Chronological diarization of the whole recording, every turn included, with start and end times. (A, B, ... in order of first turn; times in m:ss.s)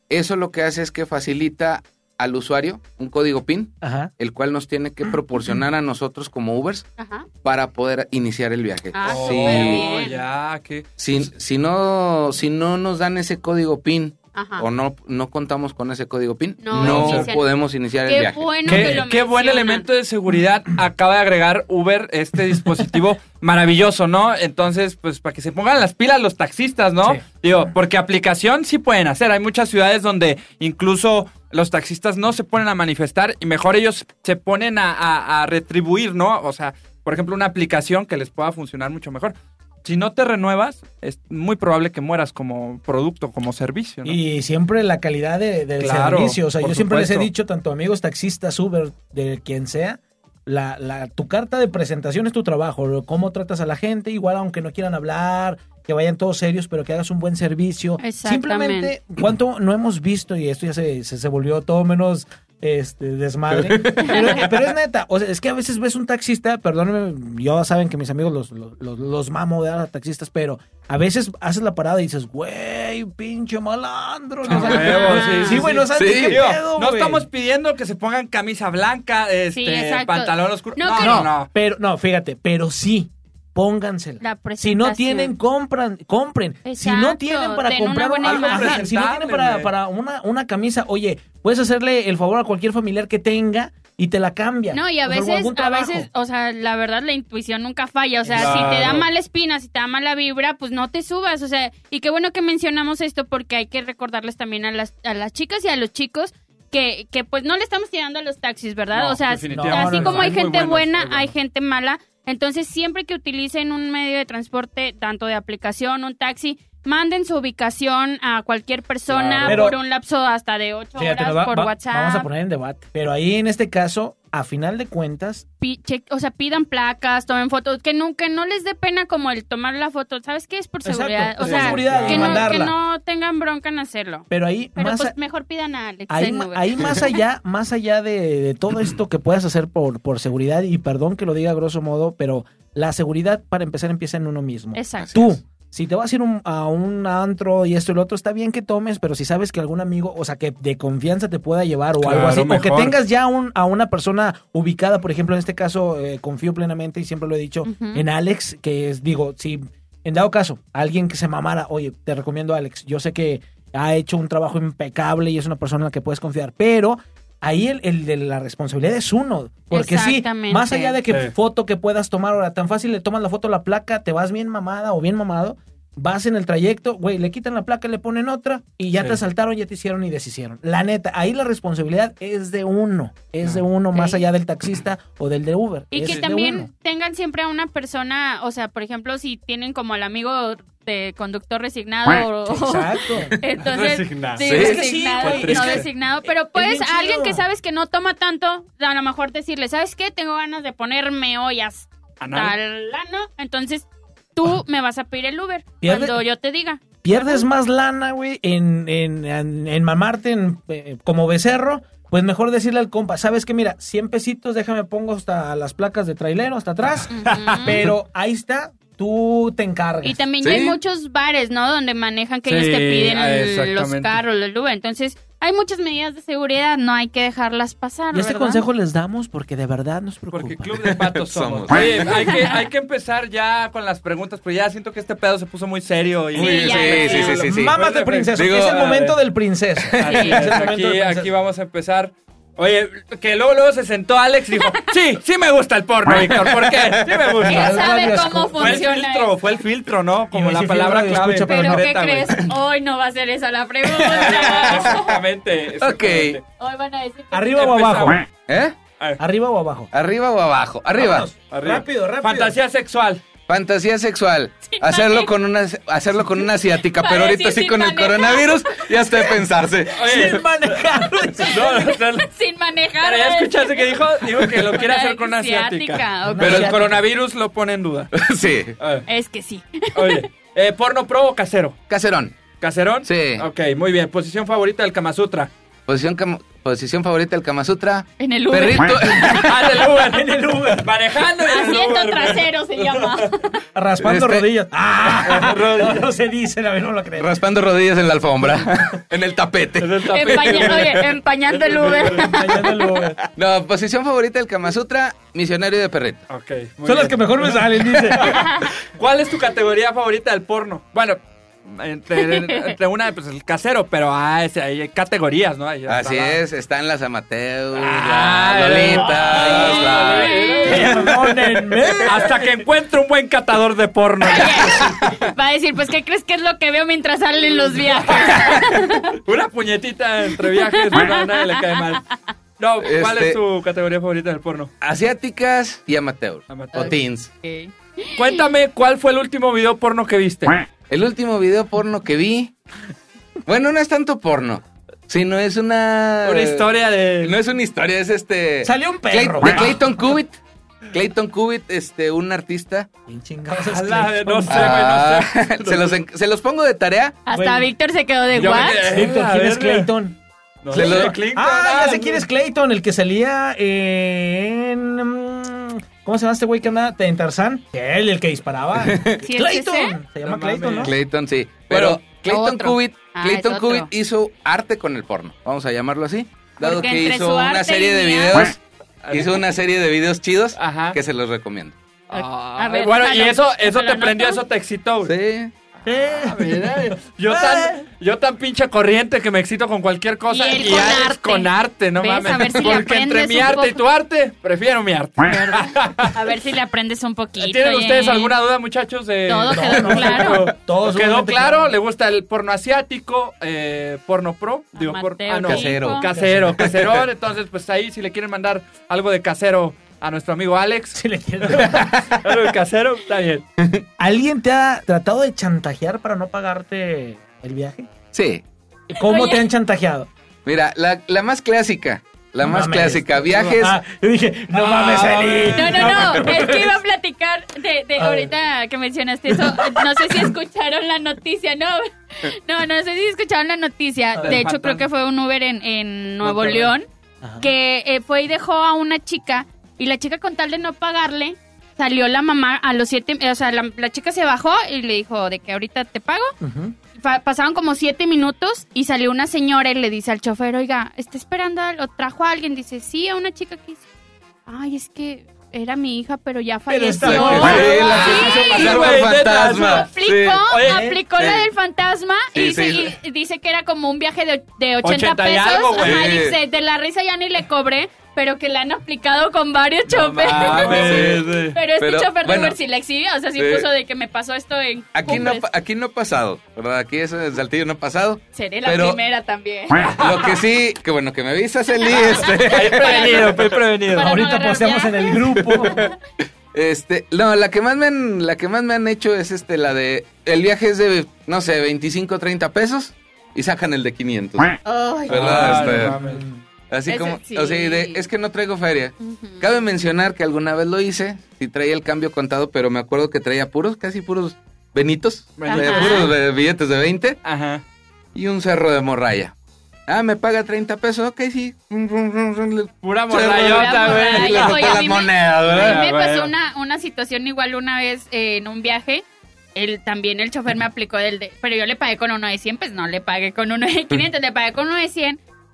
0:00.1-0:06.9 A
0:03.8-0:04.1 B
0:07.0-0:07.3 C
0:07.4-0:09.9 A
0:08.9-0:10.2 C
0:09.0-0:10.9 D
0:11.0-0:18.9 A
0:14.3-0:14.6 C
0:16.6-0:19.8 C
0:16.7-0:17.3 D
0:18.6-0:44.2 D
0:44.0-1:17.2 B
0:45.8-0:47.3 D
0:58.0-0:58.9 C
1:03.5-1:04.2 A
1:04.0-1:04.4 C
1:14.4-1:21.5 D
1:14.5-1:15.7 C
1:15.9-1:16.4 A
1:19.5-1:21.3 C
1:21.0-1:36.1 B
1:24.2-1:25.3 C
1:26.6-1:28.9 C
1:28.2-1:29.7 D
1:34.7-2:02.3 C
1:38.2-1:39.0 B
1:38.3-1:39.0 D
1:48.9-1:51.3 D
1:49.5-1:50.4 B
1:59.1-1:59.7 D
1:59.4-1:59.8 B
2:01.0-2:05.4 B
2:05.6-2:17.1 C
2:10.8-2:12.7 B
2:11.4-2:12.6 D
2:14.3-2:15.1 B
2:16.1-3:06.7 B
2:24.7-2:25.3 C
2:25.0-2:25.3 A
2:32.0-2:32.9 D
2:37.6-2:38.0 C
2:49.7-2:51.0 C
2:51.1-2:51.3 D
2:58.9-2:59.2 D
3:03.9-3:04.2 C
3:05.9-3:27.4 C
3:12.5-3:13.4 B
3:13.6-3:14.5 D
3:14.4-3:14.8 A
3:14.4-3:17.4 B
3:15.2-3:15.8 D
3:22.2-3:22.5 D
3:25.8-3:26.2 B
3:27.0-3:40.2 B
3:37.1-3:37.8 C
3:37.2-3:37.8 D
3:40.0-3:48.6 C
3:40.4-3:40.8 A
3:42.5-3:44.2 D
3:48.1-3:50.7 B
3:50.3-3:59.2 D
3:50.8-3:52.2 A
3:52.2-3:52.5 C
3:56.3-3:57.8 A
3:56.3-3:57.4 C
3:57.5-4:01.3 B
3:58.3-3:58.9 A
3:59.9-4:00.7 A
3:59.9-4:07.9 D
4:00.0-4:00.4 C
4:04.6-4:04.9 C
4:06.0-4:07.4 A
4:07.4-4:08.8 B
4:07.4-4:09.3 C
4:08.5-4:12.5 D
4:10.3-4:11.8 B
4:11.4-4:15.2 C
4:14.1-4:16.4 D
4:14.2-4:14.9 A
4:15.8-4:16.4 A
4:16.6-4:17.7 C
4:17.3-4:18.2 B
4:17.5-4:18.2 D
4:18.5-4:18.8 A
4:19.2-4:19.9 B
4:19.9-4:21.3 A
4:21.0-4:22.6 B
4:21.5-4:23.2 D
4:23.5-4:30.4 A
4:24.7-4:25.3 C
4:26.9-4:29.2 C
4:30.0-4:30.5 D
4:30.0-4:31.6 B
4:31.2-4:34.0 C
4:31.5-4:32.3 D
4:33.0-4:38.1 D
4:34.7-4:36.7 C
4:36.3-4:36.9 B
4:38.1-4:38.8 A
4:38.8-4:39.0 D
4:39.1-4:40.3 C
4:39.9-4:41.8 D
4:41.9-4:42.4 A
4:42.6-4:45.5 D
4:43.0-4:43.5 A
4:45.9-4:49.9 A
4:48.2-4:49.4 C
4:49.2-4:52.5 D
4:50.0-4:50.9 B
4:51.4-4:53.6 C
4:53.7-4:57.3 B
4:54.0-4:54.5 A
4:55.2-4:56.0 A
4:55.4-4:55.8 D
4:57.2-5:01.0 A
4:59.8-5:02.4 D
5:00.1-5:03.0 C
5:01.9-5:03.2 B
5:03.3-5:06.2 A
5:06.3-5:16.4 D
5:06.8-5:08.6 B
5:08.2-5:08.7 C
5:12.1-5:12.8 C
5:15.9-5:20.9 A
5:17.7-5:25.0 D
5:19.0-5:20.9 C
5:19.4-5:19.8 B
5:20.7-5:22.4 B
5:24.2-5:29.2 C
5:27.8-5:28.6 D
5:28.3-5:28.6 A
5:29.2-5:32.1 D
5:30.4-5:31.8 C
5:32.6-5:34.7 D
5:32.8-5:33.4 A
5:34.8-5:37.3 A
5:36.5-5:37.0 D
5:36.7-5:38.4 C
5:38.2-5:40.6 D
5:40.9-5:42.5 A
5:43.4-5:46.7 A
5:46.2-5:47.4 D
5:47.2-5:50.4 A
5:48.6-5:49.8 B
5:50.9-5:52.9 A
5:53.1-5:54.9 B
5:53.5-5:56.0 D
5:54.5-5:57.2 A
5:57.3-5:58.9 C
5:57.3-5:57.7 B
5:58.3-5:59.9 D
5:58.8-6:00.2 B
6:00.6-6:02.2 D
6:00.7-6:10.9 B
6:00.7-6:01.2 A
6:08.8-6:09.2 A
6:09.2-6:10.0 C
6:10.2-6:10.9 D
6:10.8-6:21.8 A
6:11.7-6:12.0 D
6:12.2-6:13.9 C
6:16.6-6:18.5 C
6:19.0-6:19.3 D
6:20.6-6:21.0 D
6:22.1-6:25.1 D
6:22.1-6:24.4 C
6:25.0-6:25.5 A
6:25.8-6:27.8 B
6:26.2-6:36.2 D
6:30.3-6:33.8 C
6:35.2-6:38.3 C
6:37.4-6:53.4 D
6:39.2-6:40.5 C
6:39.5-6:41.7 B
6:44.7-6:46.1 C
6:45.4-6:47.0 A
6:46.1-6:46.6 B
6:51.0-6:52.1 B
6:51.8-6:52.2 A
6:53.6-6:53.8 A
6:54.0-6:57.9 B
6:58.1-6:58.4 A
6:58.9-7:00.1 B
6:59.0-6:59.4 C
7:00.4-7:03.8 A
7:02.4-7:06.7 B
7:04.5-7:06.4 D
7:05.5-7:16.9 C
7:08.0-7:08.3 B
7:09.3-7:10.3 B
7:14.2-7:14.4 B
7:14.2-7:14.8 D
7:16.2-7:16.7 D
7:17.2-7:17.5 B
7:17.4-7:26.3 C
7:26.4-7:26.8 B
7:27.0-7:33.8 C
7:34.5-7:38.9 C
7:36.7-7:38.7 B
7:37.0-7:40.4 A
7:37.4-7:39.9 D
7:39.5-7:55.5 C
7:40.5-7:40.9 D
7:40.6-7:41.0 B
7:41.2-7:41.5 A
7:42.3-7:42.9 A
7:44.8-7:46.2 D
7:45.8-7:46.4 A
7:49.9-7:52.6 A
7:50.1-7:51.6 D
7:50.6-7:51.1 B
7:53.4-7:53.7 A
7:54.9-7:59.0 A
7:58.3-8:00.0 C
7:59.8-8:00.2 D
7:59.9-8:03.5 A
8:01.8-8:06.0 C
8:02.2-8:04.2 D
8:04.0-8:05.8 B
8:05.4-8:05.9 A
8:06.5-8:16.0 A
8:14.6-8:15.4 C
8:15.1-8:16.2 D
8:15.4-8:16.4 B
8:16.7-8:27.2 A
8:16.9-8:18.0 C
8:19.0-8:19.5 C
8:25.4-8:26.1 D
8:25.5-8:26.1 C
8:27.2-8:27.6 D
8:28.1-8:29.3 A
8:29.9-8:35.8 A
8:32.8-8:34.8 D
8:33.2-8:45.2 C
8:35.4-8:36.3 D